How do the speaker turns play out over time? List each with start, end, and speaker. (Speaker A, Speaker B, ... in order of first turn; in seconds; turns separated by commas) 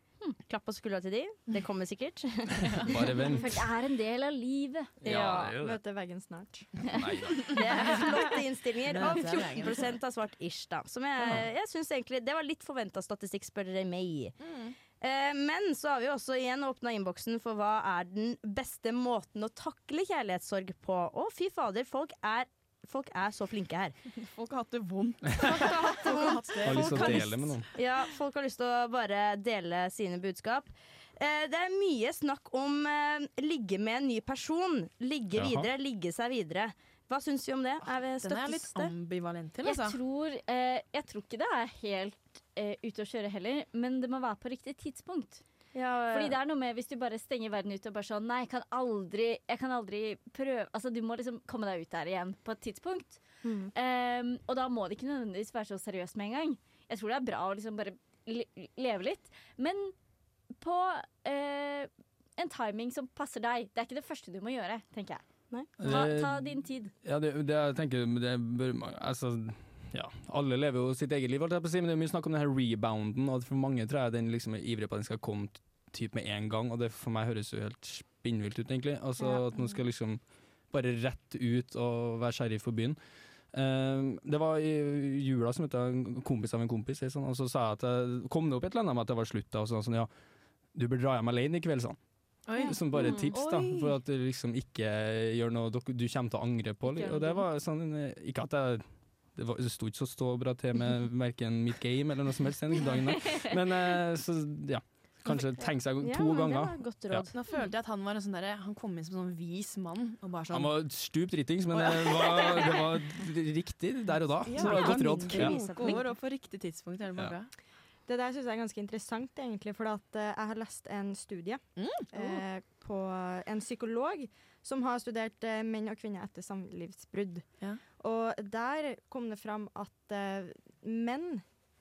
Speaker A: 0.5-2.9, Speaker B: 2.8-3.7, Speaker C: 3.4-4.9, Speaker B: 5.0-5.8, Speaker D: 5.0-7.0, Speaker B: 6.8-7.6, Speaker A: 7.5-14.4, Speaker E: 8.9-9.9, Speaker E: 14.4-14.7, Speaker A: 15.0-23.9, Speaker E: 24.2-27.6, Speaker A: 25.5-38.9, Speaker B: 26.6-27.7, Speaker B: 35.3-35.7, Speaker E: 38.2-40.0, Speaker C: 39.6-45.4, Speaker A: 45.7-46.4, Speaker C: 46.1-53.2, Speaker A: 53.4-53.7, Speaker C: 53.7-59.9, Speaker C: 60.6-65.2, Speaker C: 65.8-66.9, Speaker B: 65.8-83.0, Speaker A: 79.2-79.8, Speaker B: 83.5-90.1, Speaker B: 90.7-107.3, Speaker E: 92.5-93.6, Speaker A: 92.7-93.2, Speaker C: 96.9-97.2, Speaker A: 106.0-107.3, Speaker E: 107.3-110.8, Speaker B: 110.5-115.6, Speaker E: 111.7-112.9, Speaker E: 114.5-117.5, Speaker A: 114.5-116.1, Speaker D: 118.1-131.4, Speaker E: 121.8-122.0